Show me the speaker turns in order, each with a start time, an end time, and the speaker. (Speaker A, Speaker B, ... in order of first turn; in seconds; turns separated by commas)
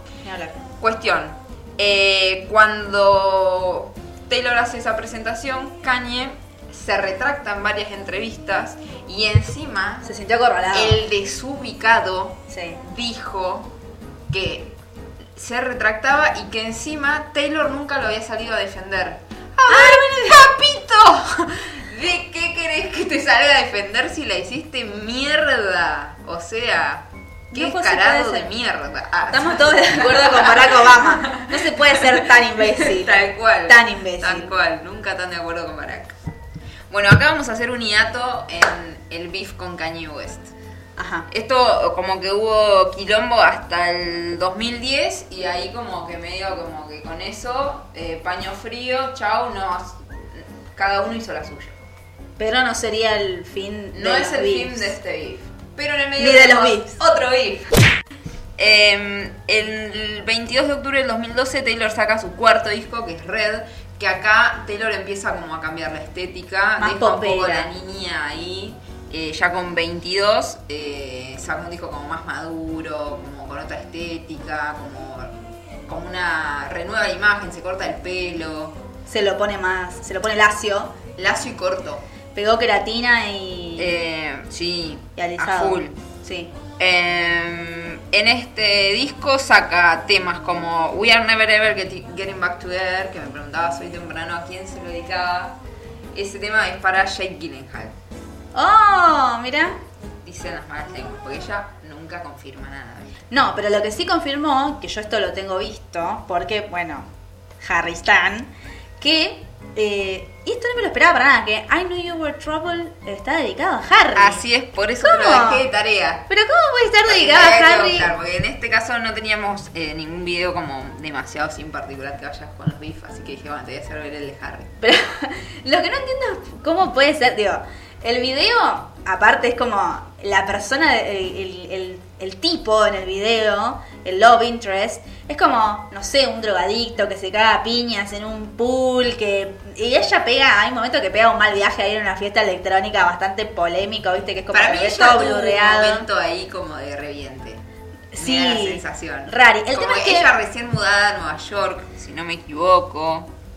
Speaker A: 0.2-0.6, Speaker B: 0.8-10.1, Speaker A: 10.0-11.0, Speaker B: 10.7-13.7, Speaker A: 12.5-12.8, Speaker B: 14.3-14.7, Speaker B: 15.3-36.1, Speaker A: 19.7-20.4, Speaker A: 27.5-28.5, Speaker A: 29.3-34.5, Speaker B: 36.9-40.5, Speaker A: 41.0-41.3, Speaker B: 41.3-51.8, Speaker A: 52.4-54.9, Speaker B: 53.9-57.7, Speaker A: 56.2-56.9, Speaker B: 58.6-75.3, Speaker A: 66.8-67.7, Speaker B: 75.9-78.8, Speaker A: 79.1-81.0, Speaker B: 81.2-82.0, Speaker A: 82.3-83.9, Speaker B: 83.8-86.0, Speaker A: 85.2-86.5, Speaker B: 86.8-95.6, Speaker B: 96.1-97.9, Speaker A: 98.5-99.8, Speaker B: 100.2-103.2, Speaker A: 103.3-107.1, Speaker A: 107.6-114.4, Speaker B: 114.1-116.2, Speaker A: 115.0-115.6, Speaker A: 116.3-118.1, Speaker B: 117.1-124.7, Speaker A: 124.8-146.1, Speaker B: 144.5-147.6, Speaker A: 148.1-150.3, Speaker B: 148.2-153.3